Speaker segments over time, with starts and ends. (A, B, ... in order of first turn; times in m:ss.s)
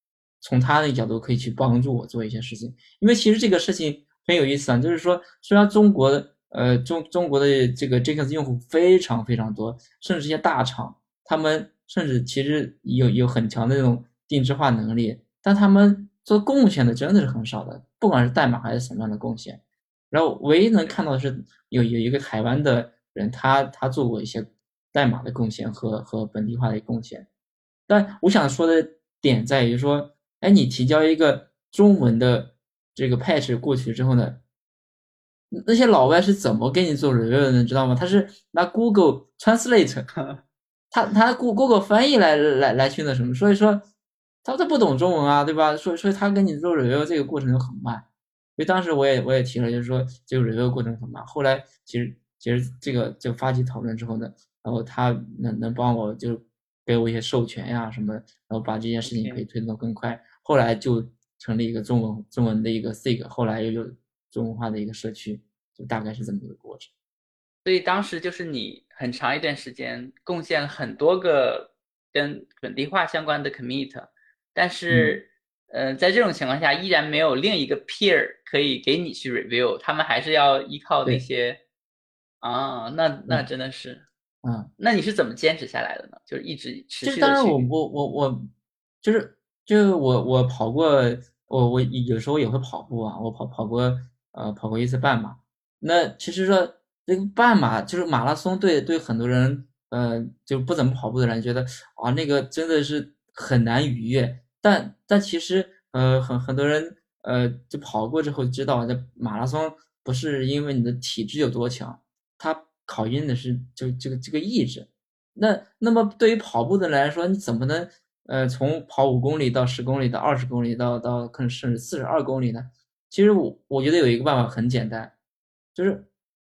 0:00.4-0:19.6 A
0:20.1-0:27.2 A
0:27.9-0:34.4 A
0:35.5-0:40.1 A
0:40.9-0:43.8 A
0:44.4-0:48.0 A
0:48.6-1:06.9 A
0:59.0-0:59.4 B
1:07.6-1:21.6 B
1:14.9-1:15.2 A
1:22.4-1:24.1 B
1:24.4-1:24.7 A
1:24.8-1:27.7 B
1:27.0-1:28.5 A
1:29.0-2:05.1 A
2:05.7-2:06.1 A